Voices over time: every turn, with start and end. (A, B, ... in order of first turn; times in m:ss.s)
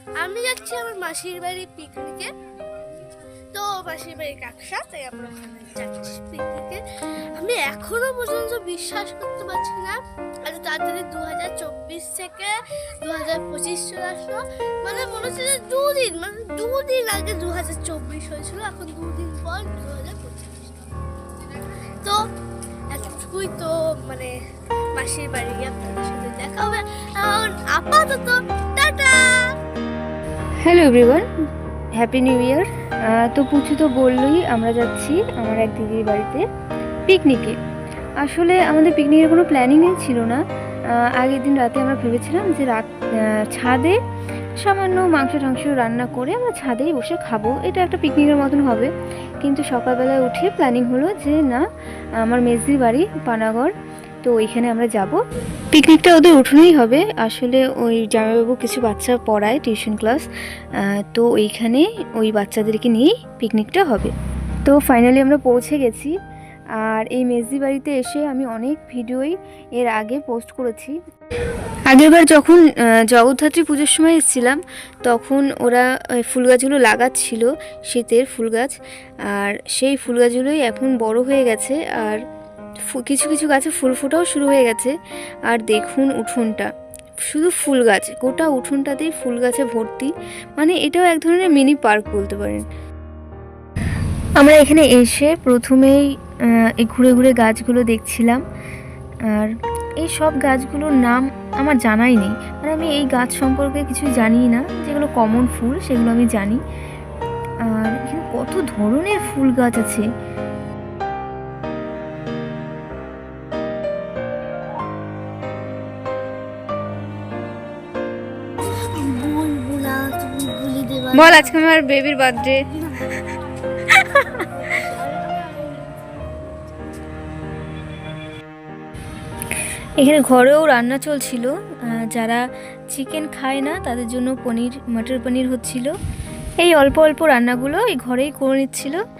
0:00.2-0:02.8 A
0:03.5-0:06.8 A
0:07.3-0:20.9 A
0:21.4-0:22.2 A
0:22.9-0:24.3 A
0:24.9-0:29.5 A
0:30.6-0:31.2 B
0:31.9-0:36.4 B
0:37.1-0:37.6 B
0:38.2-0:44.0 B
0:44.6-0:51.6 B
0:52.2-0:55.2 B
0:55.7-1:04.1 B
1:04.6-1:06.1 B
1:06.8-1:11.0 B
1:11.8-1:22.2 B
1:22.8-1:25.0 B
1:25.5-1:26.7 B
1:27.2-1:32.6 B
1:34.4-1:38.4 B
1:39.3-1:46.6 B
1:47.6-1:50.0 B
1:58.7-2:01.5 A
2:01.1-2:02.6 B
2:02.9-2:03.2 A
2:03.9-2:04.3 B
2:04.3-2:06.7 A
2:10.0-2:15.9 B
2:16.6-2:19.0 B